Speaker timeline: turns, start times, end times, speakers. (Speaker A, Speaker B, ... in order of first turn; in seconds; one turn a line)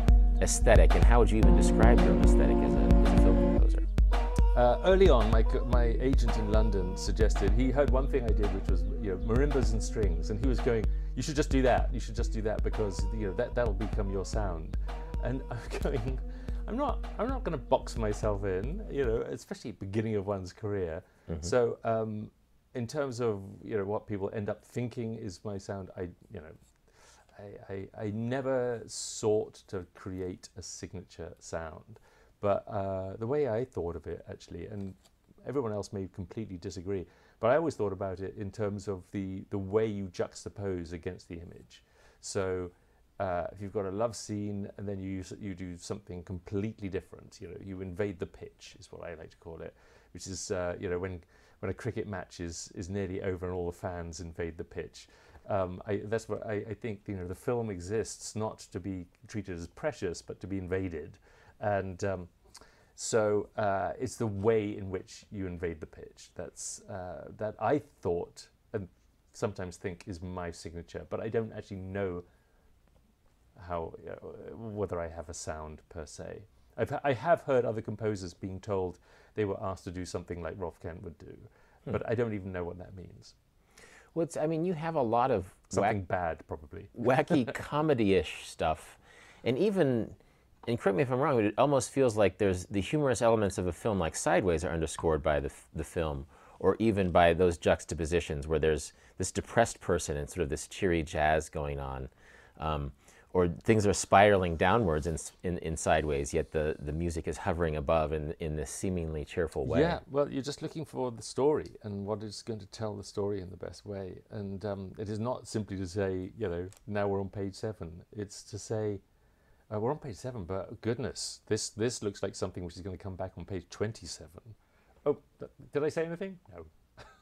Speaker A: 0.4-3.9
Speaker B: 4.5-62.3
Speaker B: 63.0-72.2
Speaker B: 73.5-83.3
Speaker A: 84.1-86.0
Speaker B: 85.7-87.5
Speaker A: 87.0-110.0
Speaker B: 109.6-119.0
Speaker B: 119.7-126.7